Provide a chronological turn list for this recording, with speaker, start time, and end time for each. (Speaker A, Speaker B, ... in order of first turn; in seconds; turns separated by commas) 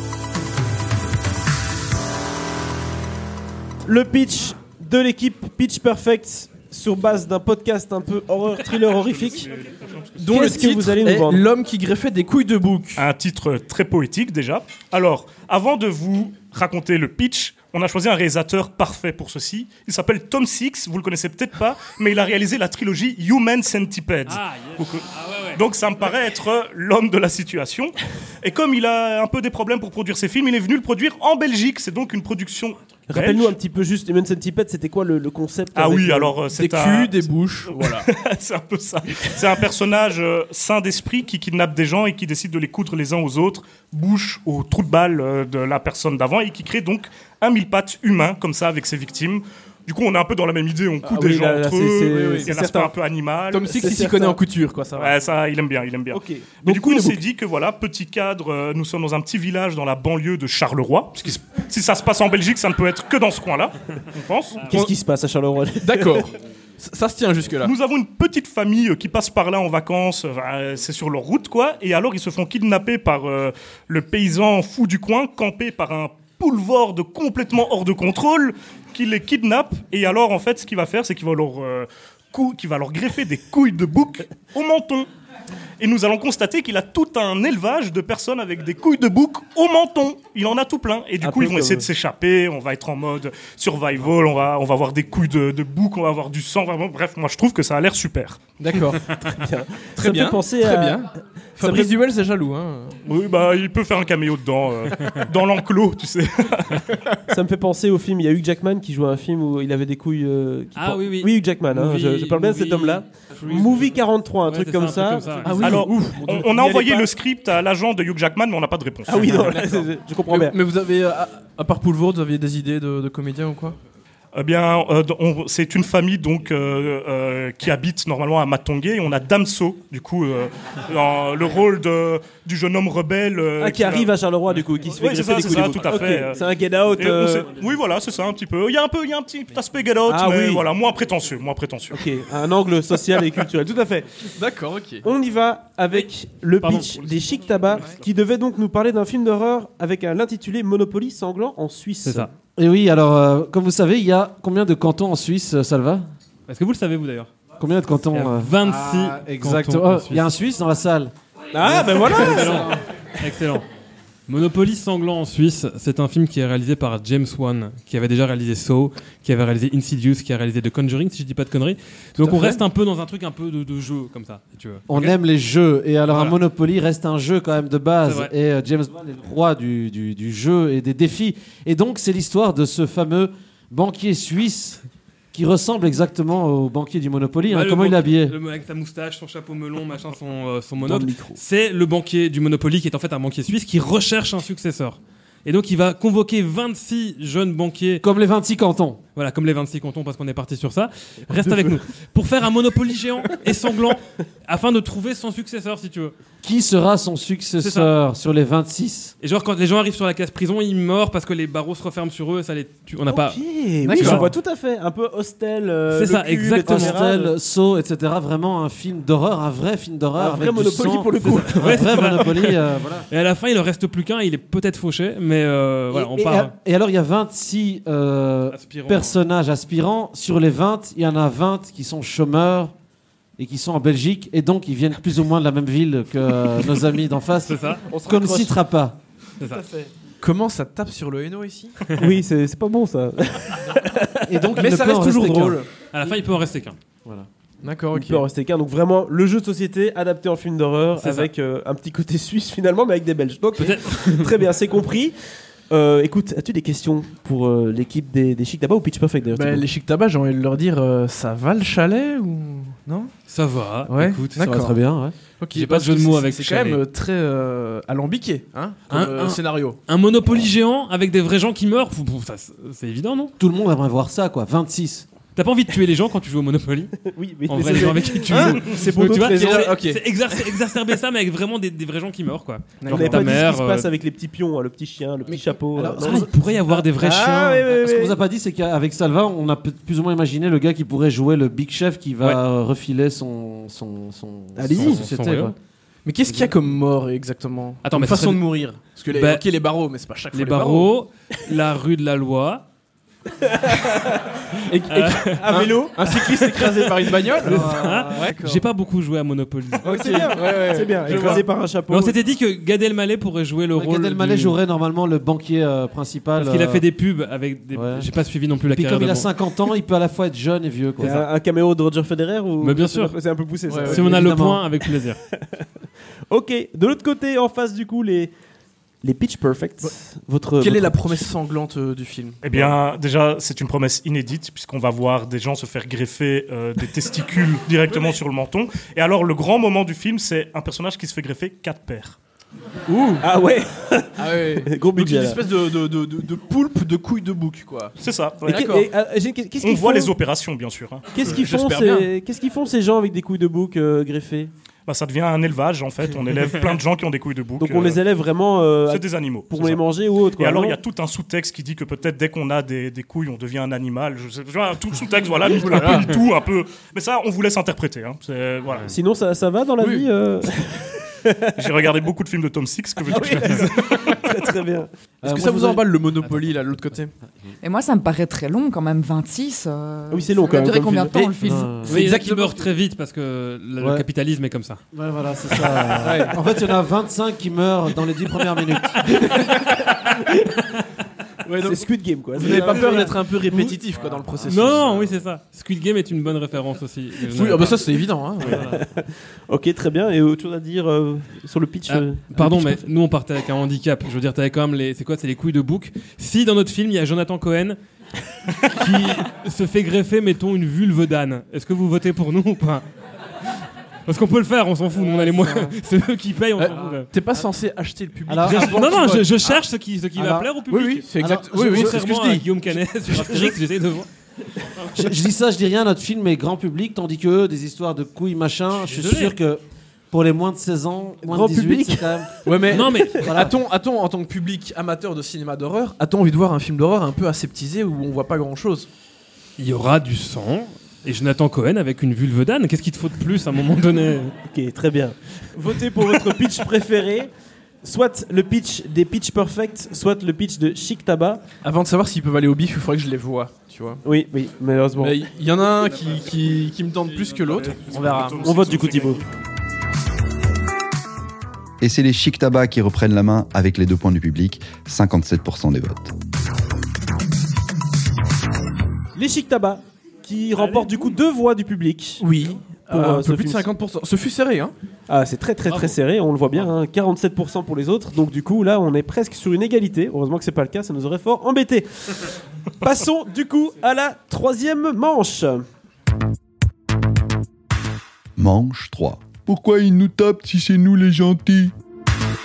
Speaker A: 3.9-9.5, Speaker B: 8.9-10.5, Speaker C: 10.2-13.1, Speaker A: 10.3-11.4, Speaker B: 13.0-33.5, Speaker D: 24.3-25.6, Speaker A: 33.1-36.4, Speaker B: 35.8-53.7, Speaker C: 36.5-38.1, Speaker A: 51.0-52.9, Speaker C: 52.1-52.6, Speaker C: 53.5-55.2, Speaker A: 53.7-54.4, Speaker B: 55.0-64.8, Speaker A: 56.1-57.2, Speaker A: 64.6-66.3, Speaker C: 65.8-67.7, Speaker B: 67.6-85.1, Speaker B: 85.8-98.4, Speaker A: 91.2-91.9, Speaker C: 98.6-99.2, Speaker A: 99.2-101.9, Speaker C: 100.0-103.0, Speaker B: 103.0-107.0, Speaker A: 107.3-117.1, Speaker D: 110.8-115.8, Speaker C: 115.4-116.3, Speaker B: 115.5-119.5, Speaker A: 119.1-120.6, Speaker C: 119.1-123.8, Speaker B: 124.3-134.1, Speaker A: 133.6-137.5, Speaker B: 134.9-136.4, Speaker B: 137.0-142.0, Speaker A: 140.1-140.7, Speaker A: 141.9-144.3, Speaker C: 144.4-145.1, Speaker A: 145.0-152.3, Speaker D: 146.6-146.9, Speaker B: 147.7-148.0, Speaker D: 152.0-152.3, Speaker E: 152.6-156.1, Speaker D: 156.5-157.3, Speaker E: 157.6-162.8, Speaker D: 158.1-160.3, Speaker A: 161.5-162.8, Speaker D: 161.9-163.7, Speaker D: 164.3-175.2, Speaker C: 172.2-172.6, Speaker E: 174.9-184.8, Speaker D: 176.1-176.4, Speaker D: 178.0-178.3, Speaker E: 185.3-188.4, Speaker D: 187.5-198.0, Speaker A: 190.8-191.4, Speaker E: 198.0-199.0, Speaker D: 199.2-206.1, Speaker E: 206.4-209.1, Speaker D: 207.6-207.9, Speaker D: 209.2-214.3, Speaker A: 213.1-217.3, Speaker C: 213.8-214.3, Speaker D: 215.9-217.0, Speaker E: 216.7-223.1, Speaker A: 220.2-222.4, Speaker D: 221.2-222.5, Speaker D: 223.1-226.5, Speaker E: 225.9-232.7, Speaker D: 228.5-229.2, Speaker E: 233.4-239.0, Speaker D: 237.5-237.8, Speaker A: 237.9-238.6, Speaker A: 239.5-239.9, Speaker C: 240.2-241.9, Speaker A: 241.9-244.5, Speaker E: 244.3-245.6, Speaker C: 244.6-245.7, Speaker D: 245.9-246.8, Speaker C: 247.6-248.3, Speaker A: 247.9-255.2, Speaker D: 251.0-251.3, Speaker D: 253.6-254.3, Speaker A: 255.7-259.7, Speaker C: 259.3-263.1, Speaker D: 263.3-264.4, Speaker C: 263.9-264.8, Speaker E: 264.4-265.1, Speaker C: 265.4-269.8, Speaker D: 265.5-266.8, Speaker D: 268.9-273.3, Speaker E: 273.4-275.1, Speaker D: 275.4-276.9, Speaker A: 277.1-279.5, Speaker D: 277.5-283.9, Speaker C: 278.3-280.0, Speaker C: 282.8-283.4, Speaker A: 282.9-286.3, Speaker C: 285.3-286.8, Speaker D: 286.0-287.7, Speaker A: 287.0-288.2, Speaker E: 287.6-295.6, Speaker A: 294.6-295.1, Speaker D: 294.7-295.5, Speaker C: 296.1-300.9, Speaker D: 297.8-298.4, Speaker D: 299.1-299.4, Speaker D: 300.3-302.6, Speaker A: 303.4-304.3, Speaker C: 304.7-308.7, Speaker D: 304.9-305.7, Speaker A: 305.4-307.2, Speaker E: 307.4-308.3, Speaker D: 307.4-309.9, Speaker C: 309.8-311.5, Speaker A: 309.8-312.2, Speaker D: 311.1-314.6, Speaker E: 313.8-316.9, Speaker D: 316.4-319.3, Speaker E: 317.7-318.1, Speaker E: 318.7-321.2, Speaker A: 321.0-324.3, Speaker D: 322.6-323.1, Speaker C: 323.7-324.1, Speaker D: 323.9-325.2, Speaker E: 324.0-324.6, Speaker A: 326.3-328.3, Speaker A: 329.0-331.3, Speaker C: 330.6-332.8, Speaker B: 332.4-342.2, Speaker C: 342.9-343.2, Speaker A: 343.2-345.4, Speaker C: 344.2-348.9, Speaker B: 348.0-348.6, Speaker A: 348.4-350.1, Speaker B: 349.6-351.1, Speaker A: 351.1-354.5, Speaker C: 351.2-352.1, Speaker B: 354.9-358.0, Speaker A: 357.6-360.8, Speaker B: 358.9-359.9, Speaker B: 360.4-368.9, Speaker C: 365.4-366.2, Speaker A: 368.9-371.9, Speaker C: 369.8-370.1, Speaker B: 371.6-374.3, Speaker A: 373.1-374.9, Speaker E: 375.2-376.3, Speaker C: 375.2-377.1, Speaker F: 377.6-381.8, Speaker A: 380.1-381.3, Speaker E: 381.4-382.1, Speaker D: 381.8-384.8, Speaker C: 381.9-382.7, Speaker E: 383.8-384.1, Speaker E: 384.9-389.2, Speaker C: 385.9-386.4, Speaker C: 389.2-389.6, Speaker C: 391.4-395.1, Speaker A: 391.6-393.7, Speaker D: 392.8-393.1, Speaker D: 394.4-397.8, Speaker C: 397.3-398.7, Speaker D: 398.4-398.8, Speaker A: 398.4-402.8, Speaker D: 401.9-407.8, Speaker D: 408.7-412.9, Speaker D: 413.5-417.1, Speaker C: 415.0-415.7, Speaker C: 416.6-419.6, Speaker E: 418.3-418.8, Speaker D: 418.4-424.1, Speaker E: 420.2-420.5, Speaker C: 420.7-422.6, Speaker E: 421.2-422.0, Speaker C: 423.1-423.6, Speaker E: 424.9-432.5, Speaker D: 428.8-429.4, Speaker A: 431.3-432.2, Speaker C: 432.4-438.9, Speaker D: 432.7-433.3, Speaker E: 433.2-433.5, Speaker D: 439.6-444.4, Speaker A: 444.5-447.3, Speaker A: 447.8-451.4, Speaker C: 451.6-454.0, Speaker A: 454.0-455.2, Speaker C: 455.0-458.5, Speaker B: 457.4-459.2, Speaker A: 458.4-459.2, Speaker G: 461.8-466.1, Speaker A: 469.1-472.2, Speaker D: 470.6-471.1, Speaker C: 472.2-474.7, Speaker A: 472.9-473.7, Speaker A: 475.1-485.6, Speaker D: 475.7-475.9, Speaker G: 488.4-491.7